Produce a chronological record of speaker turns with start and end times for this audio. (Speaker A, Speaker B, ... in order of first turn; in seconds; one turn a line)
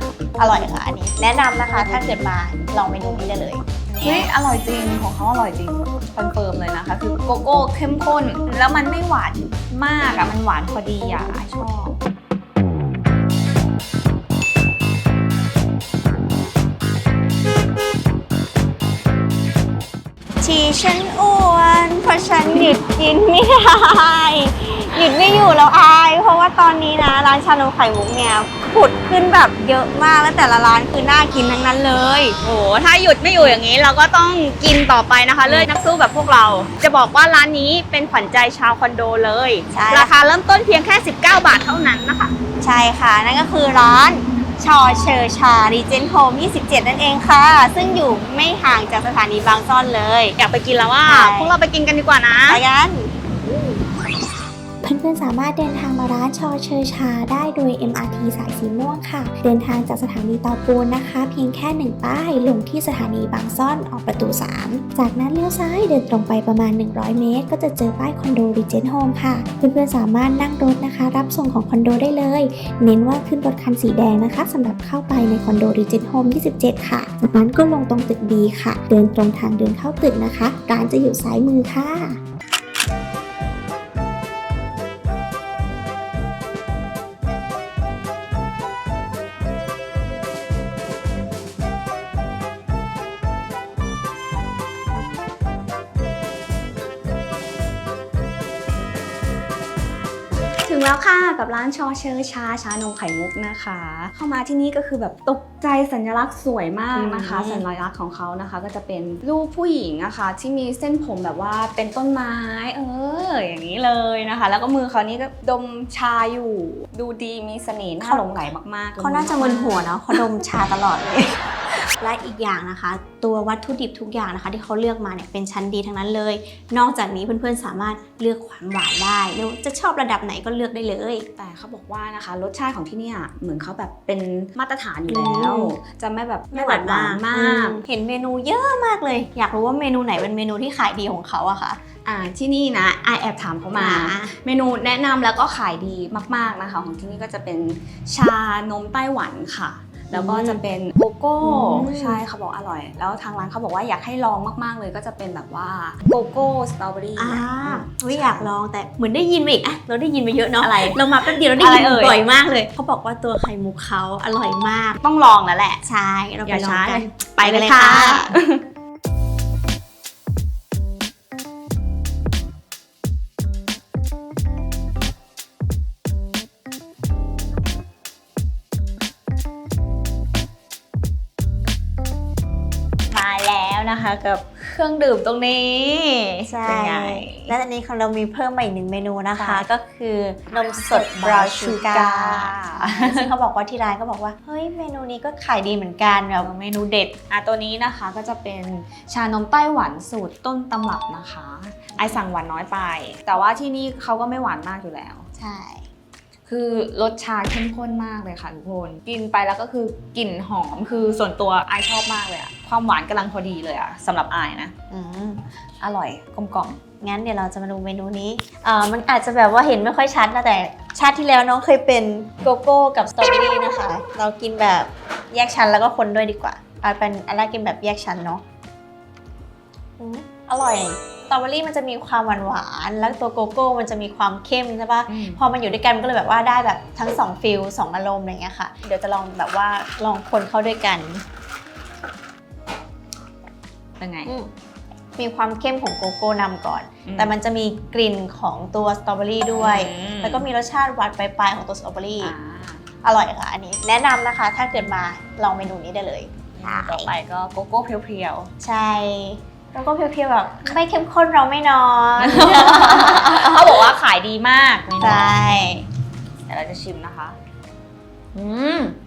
Speaker A: 0.4-3.6
Speaker B: 4.0-11.9
Speaker A: 20.4-32.4
Speaker C: 32.4-42.3
Speaker A: 39.7-40.1
Speaker A: 42.6-50.4
Speaker C: 50.4-52.6
Speaker A: 51.0-51.6
Speaker A: 52.5-53.1
Speaker D: 54.8-82.2
Speaker B: 100.6-119.9
Speaker A: 106.9-107.7
Speaker A: 118.0-131.3
Speaker B: 131.4-137.8
Speaker A: 135.1-135.8
Speaker A: 136.5-141.8
Speaker B: 142.0-158.5
Speaker A: 143.7-144.3
Speaker A: 150.1-150.6
Speaker A: 151.4-152.2
Speaker A: 157.2-165.0
Speaker B: 160.6-162.2
Speaker B: 165.0-165.7
Speaker A: 165.8-168.4
Speaker B: 166.5-168.6
Speaker B: 183.1-187.5
Speaker A: 186.5-196.5
Speaker B: 189.3-189.7
Speaker B: 190.5-193.3
Speaker B: 196.4-205.2
Speaker A: 202.0-202.2
Speaker A: 205.3-205.8
Speaker B: 206.5-214.7
Speaker A: 214.9-215.4
Speaker B: 215.8-216.8
Speaker A: 217.0-228.4
Speaker A: 230.0-241.2
Speaker B: 235.1-235.4
Speaker B: 244.0-244.3
Speaker A: 244.2-244.5
Speaker A: 245.2-252.3
Speaker B: 247.1-247.3
Speaker B: 249.6-250.5
Speaker B: 252.2-252.8
Speaker A: 253.0-257.1
Speaker B: 256.5-258.5
Speaker A: 258.6-263.9
Speaker B: 262.2-265.8
Speaker A: 265.0-265.8
Speaker B: 266.5-267.4
Speaker B: 268.3-269.0